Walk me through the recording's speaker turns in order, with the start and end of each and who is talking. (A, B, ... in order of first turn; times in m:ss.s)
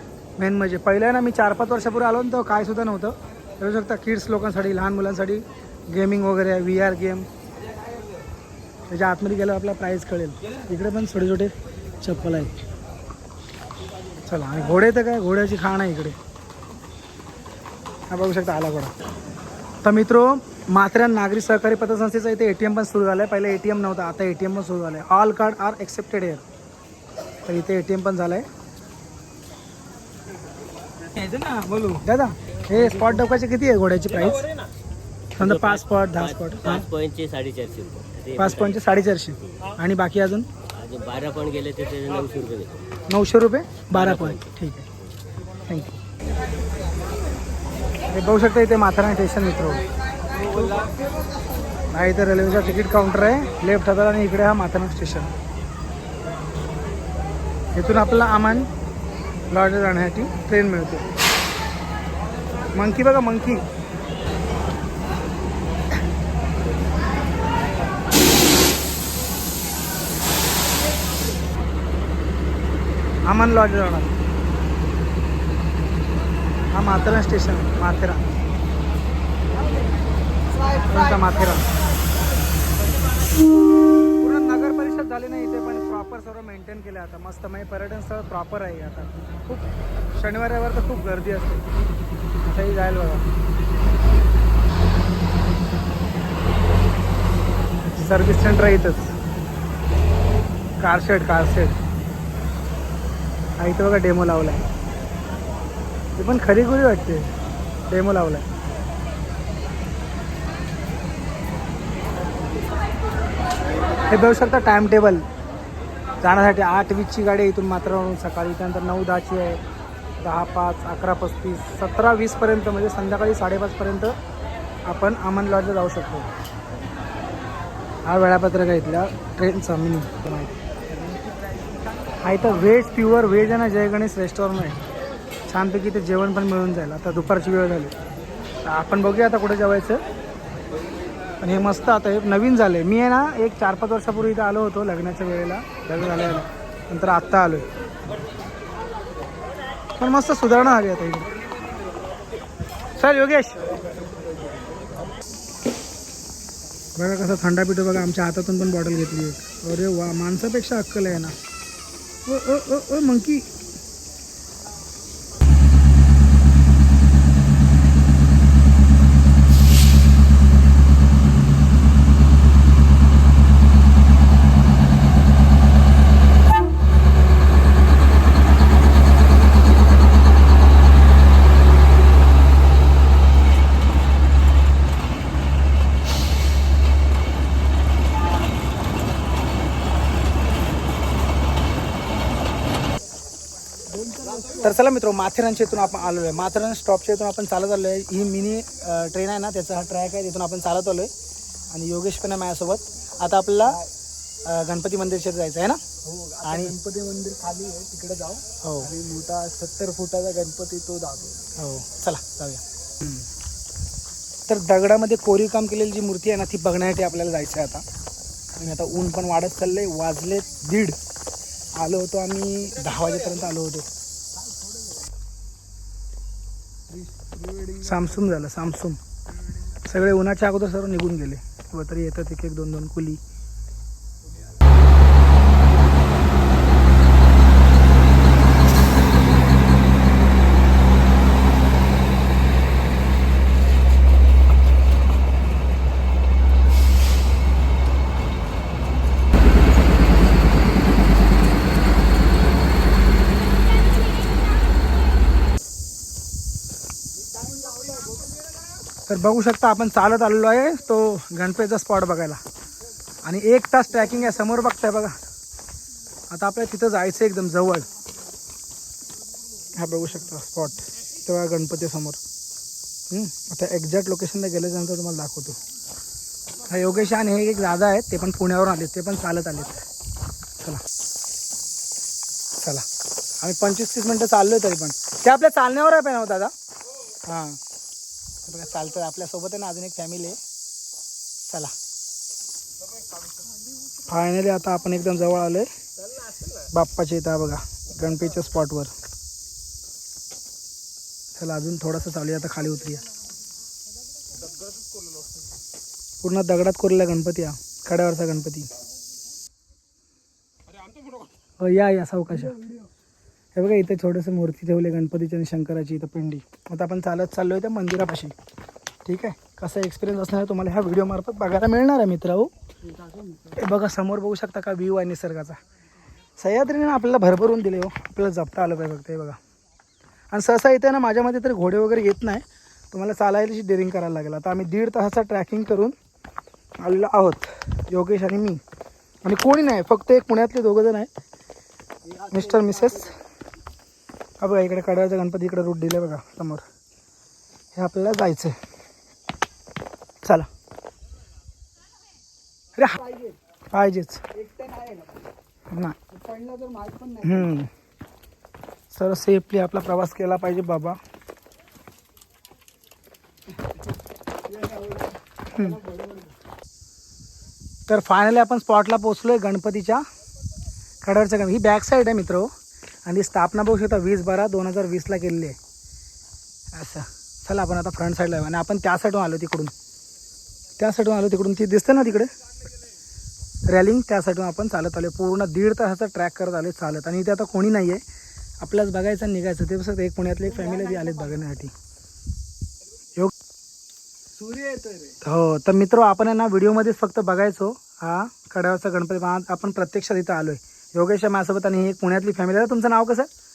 0:00.4-0:07.3 A
0:08.9-0:12.5 A
0:14.2-0:16.2 A
0:18.1-0:18.9 A
0:19.8-0:26.4 A
0:27.4-0:28.4 A
0:31.1-0:32.0 B
0:32.0-0:34.4 A
0:35.4-0:36.9 A
0:36.8-0:38.3 C
0:38.3-0:40.5 A
0:40.8-0:42.8 C
0:43.1-0:44.9 A
0:45.7-0:45.9 A
0:48.1-0:49.8 A
0:51.9-0:55.3 A
0:57.7-0:58.7 A
0:59.5-1:01.1 A
1:02.7-1:03.6 A
1:13.2-1:14.1 A
1:16.7-1:18.3 A
1:20.8-1:21.6 A
1:24.2-1:31.6 A
1:32.4-1:33.2 A
1:37.9-1:39.1 A
1:40.8-1:41.8 A
1:43.6-1:44.7 A
1:46.2-1:47.3 A
1:47.9-1:48.4 A
1:54.1-1:55.2 A
1:56.2-1:59.6 A
2:00.2-2:04.1 A
2:04.8-2:06.3 A
2:08.0-2:10.6 A
2:12.2-2:14.8 A
2:15.5-2:17.9 A
2:18.6-2:20.0 A
2:21.4-2:27.6 A
2:30.0-2:31.3 A
2:33.0-2:33.7 A
2:37.0-2:41.3 A
2:42.2-2:43.5 A
3:13.9-3:14.7 B
3:14.6-3:21.1 A
3:21.7-3:23.8 A
3:24.4-3:25.8 A
3:26.0-3:31.4 B
3:26.4-3:26.7 A
3:28.6-3:28.9 A
3:31.6-3:33.2 A
3:34.5-3:37.8 A
3:38.6-3:41.0 A
3:41.7-3:43.9 A
3:46.9-3:48.0 B
3:47.8-3:49.0 A
3:49.8-3:53.2 A
4:19.1-4:22.4 A
4:23.2-4:25.2 A
4:26.3-4:27.9 A
4:29.7-4:32.2 A
4:33.1-4:35.6 A
4:36.7-4:39.8 A
4:43.4-4:46.5 A
4:47.2-4:47.6 A
4:48.4-4:50.4 A
4:51.4-4:51.7 A
4:54.1-4:55.7 A
4:56.7-4:58.9 A
5:01.4-5:03.0 A
5:06.2-5:08.7 A
5:11.6-5:12.6 A
5:13.5-5:18.3 A
5:19.0-5:22.5 A
5:23.0-5:23.5 B
5:23.5-5:25.6 A
5:26.4-5:29.4 A
5:30.3-5:35.9 A
5:36.8-5:38.6 A
5:39.2-5:41.1 A
5:42.1-5:43.1 B
5:42.3-5:43.1 A
5:44.4-5:46.6 A
5:47.7-5:48.6 A
5:52.8-5:53.0 A
5:53.0-5:53.4 B
5:53.7-5:54.2 A
5:54.3-5:55.2 B
5:55.7-5:56.0 A
5:56.1-5:57.5 B
5:57.2-5:57.7 A
5:58.9-6:01.0 A
6:04.5-6:06.3 B
6:05.5-6:05.8 A
6:07.9-6:10.0 A
6:11.0-6:12.5 A
6:13.0-6:15.6 A
6:16.7-6:19.7 A
6:20.8-6:22.3 A
6:23.7-6:28.0 A
6:28.6-6:31.7 A
6:30.6-6:31.1 B
6:34.4-6:35.2 B
6:35.2-6:43.3 A